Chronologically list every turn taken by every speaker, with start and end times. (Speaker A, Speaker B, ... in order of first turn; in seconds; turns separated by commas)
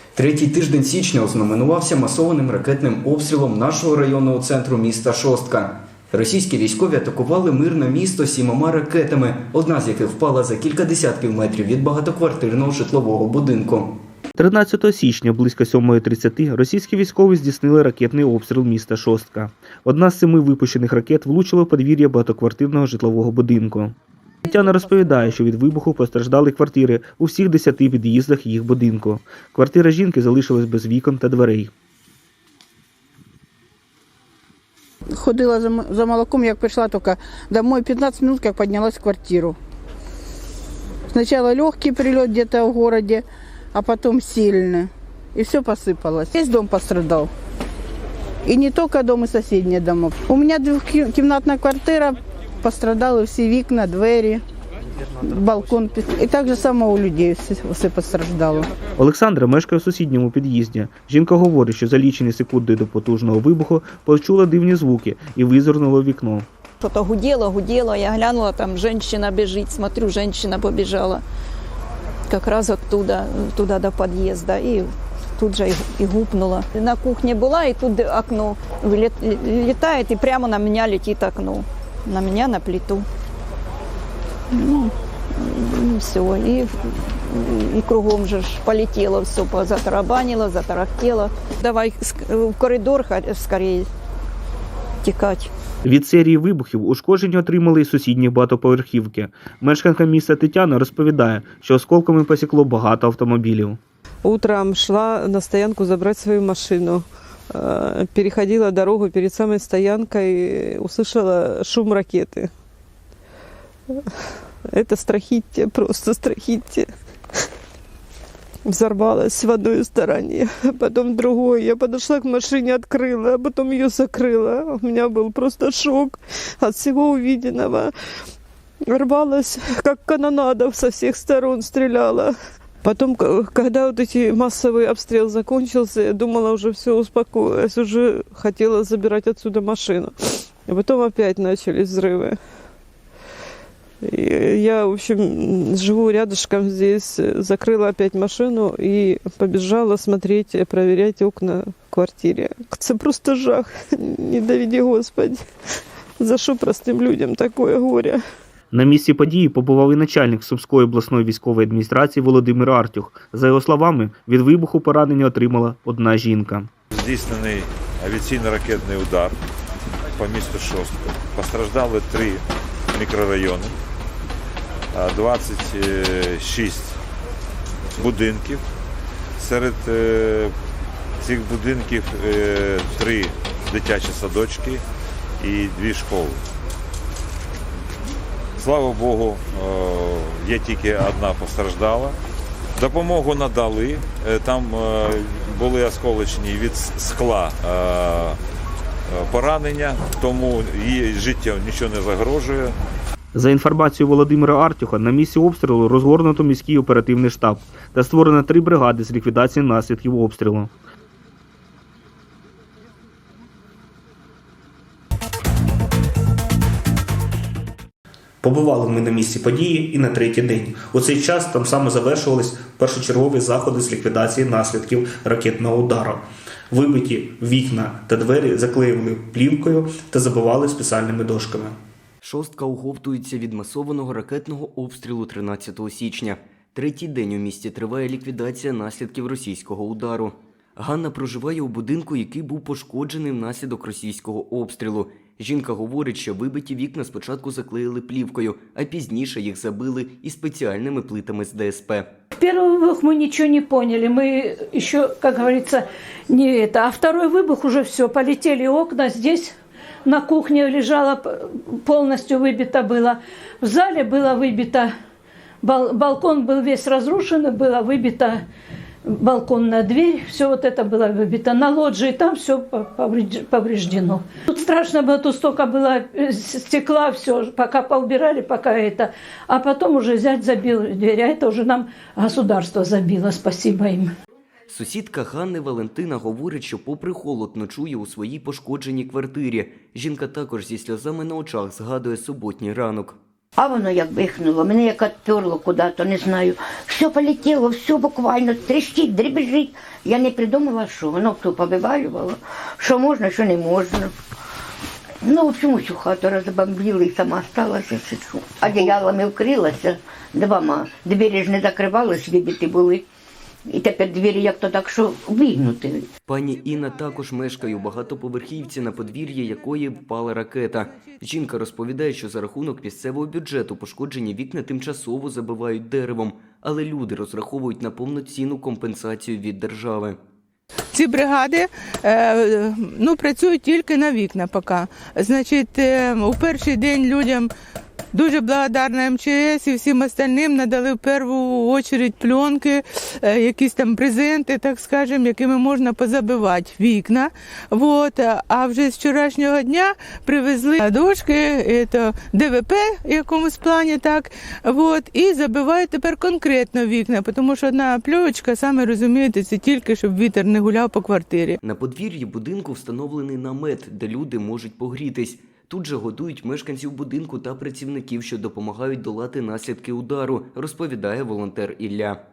Speaker A: 0.2-13.9, Speaker B: 14.4-23.9, Speaker B: 24.5-31.7, Speaker C: 35.1-39.6, Speaker C: 41.1-47.3, Speaker C: 48.5-54.4, Speaker C: 55.2-58.7, Speaker B: 59.0-66.5, Speaker D: 66.8-71.2, Speaker D: 72.3-83.0, Speaker D: 84.5-93.9, Speaker D: 95.1-95.5, Speaker B: 95.8-103.8, Speaker E: 104.2-112.5, Speaker E: 114.7-116.9, Speaker E: 118.7-127.9, Speaker E: 128.9-132.3, Speaker E: 132.8-140.1, Speaker E: 140.7-142.4, Speaker E: 144.1-155.4, Speaker E: 156.2-158.2, Speaker B: 158.7-166.7, Speaker F: 166.9-169.4, Speaker F: 170.2-172.4, Speaker F: 172.9-173.7, Speaker F: 174.9-177.0, Speaker F: 178.0-178.6, Speaker F: 179.4-180.5, Speaker F: 181.2-184.8, Speaker F: 185.4-186.4, Speaker F: 188.6-192.2, Speaker F: 192.8-198.4, Speaker F: 199.1-202.8, Speaker B: 203.3-210.7, Speaker B: 218.4-231.8, Speaker A: 232.2-252.1, Speaker G: 252.3-259.5, Speaker G: 260.1-264.9, Speaker G: 265.6-268.4, Speaker G: 269.1-284.1, Speaker A: 284.7-293.2, Speaker H: 293.6-304.1, Speaker H: 305.2-313.1, Speaker H: 313.7-316.1, Speaker A: 316.3-330.2, Speaker I: 330.9-337.5, Speaker I: 338.1-361.6, Speaker A: 361.6-372.2